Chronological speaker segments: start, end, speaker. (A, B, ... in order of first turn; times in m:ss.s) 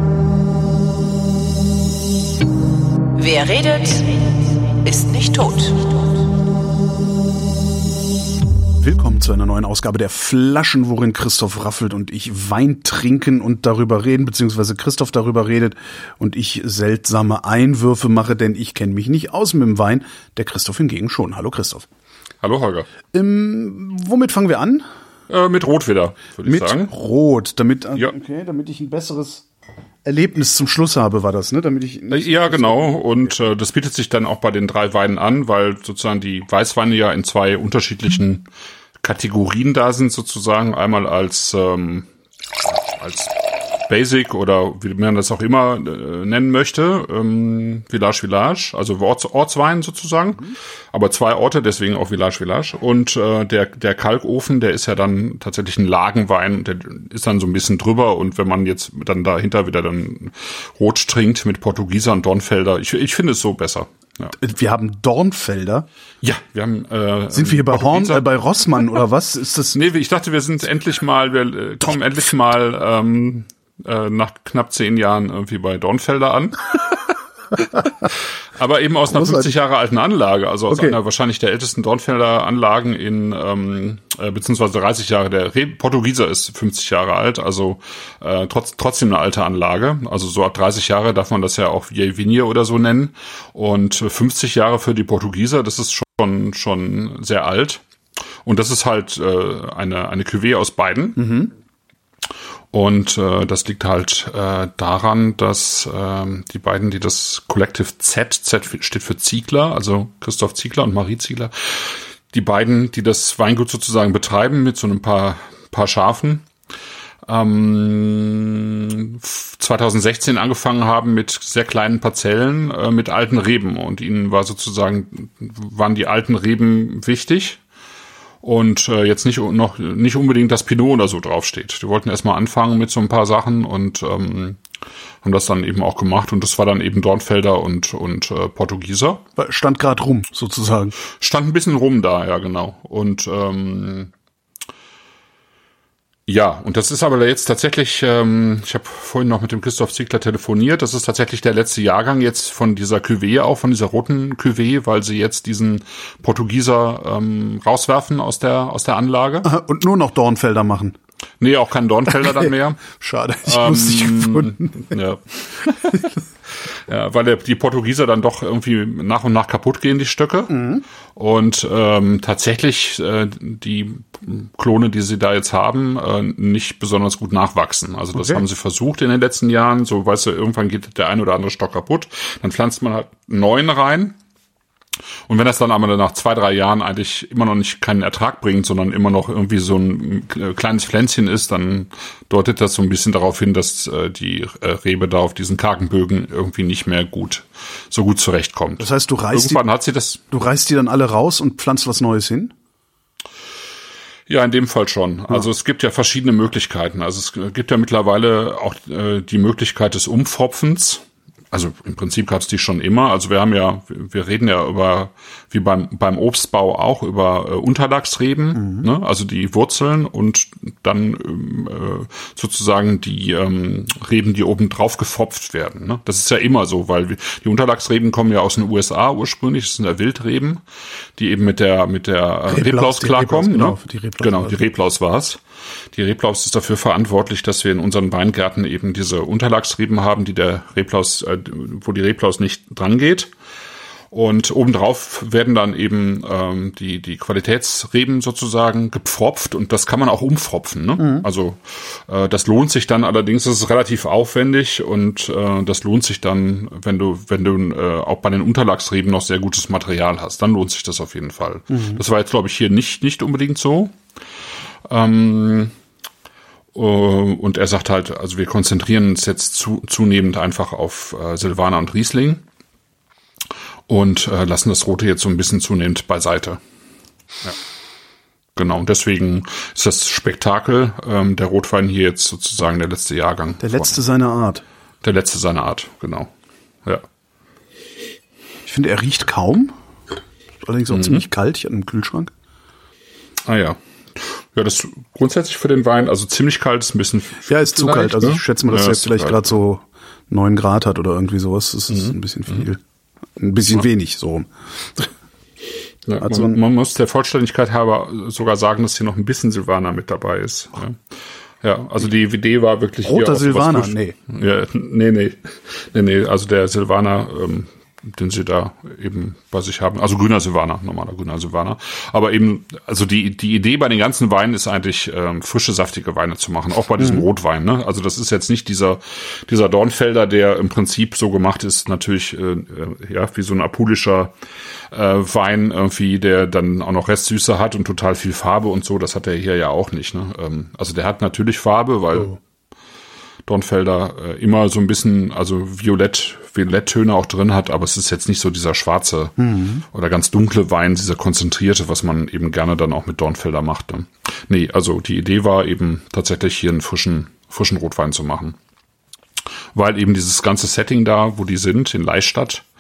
0:03.2-0:04.2 A
0:04.8-0:06.0 A
0:08.8-0:21.9 B
0:22.4-0:22.9 C
0:23.1-0:24.9 B
0:25.3-0:26.9 C
0:26.4-0:29.5 B
0:30.0-0:33.4 B
0:32.1-0:38.5 C
0:39.0-0:42.1 C
0:42.6-0:43.3 C
0:43.9-1:04.3 C
1:04.3-1:05.9 B
1:06.2-1:08.3 C
1:07.3-1:09.8 B
1:09.7-1:17.0 C
1:17.6-1:37.8 C
1:19.1-1:19.5 B
1:20.7-1:21.0 B
1:38.4-1:41.3 C
1:41.2-1:41.5 B
1:42.7-1:56.5 C
1:57.2-2:07.6 C
2:08.4-2:14.6 C
2:15.2-2:19.2 C
2:19.4-2:21.0 B
2:21.1-2:24.1 C
2:26.3-2:39.5 C
2:39.4-2:41.0 B
2:41.4-2:42.8 C
2:42.2-2:44.9 B
2:43.4-2:46.1 C
2:46.7-2:50.5 C
2:50.5-2:50.8 B
2:51.2-3:04.2 C
2:58.2-2:58.4 B
3:05.3-3:20.2 C
3:18.8-3:19.6 B
3:20.3-3:22.5 B
3:24.3-3:50.6 C
3:38.6-3:38.9 B
3:51.2-3:55.4 C
3:52.5-3:54.6 B
3:55.9-4:03.3 C
4:04.1-4:24.0 C
4:11.0-4:11.3 B
4:21.7-4:22.0 B
4:24.9-4:25.7 C
4:26.7-4:32.4 C
4:33.9-4:36.6 C
4:38.6-4:44.0 C
4:43.6-4:44.6 B
4:45.0-4:46.3 C
4:48.7-4:49.7 B
4:50.6-4:52.3 B
4:50.9-4:51.2 C
4:53.4-4:59.5 C
4:57.5-5:02.8 B
5:01.9-5:02.6 C
5:03.4-5:05.1 B
5:06.1-5:34.4 C
5:06.2-5:06.6 B
5:13.0-5:14.2 B
5:27.0-5:27.2 B
5:34.9-5:42.4 C
5:43.5-5:49.4 C
5:49.4-5:49.8 B
5:49.9-5:58.6 C
5:59.7-6:02.7 C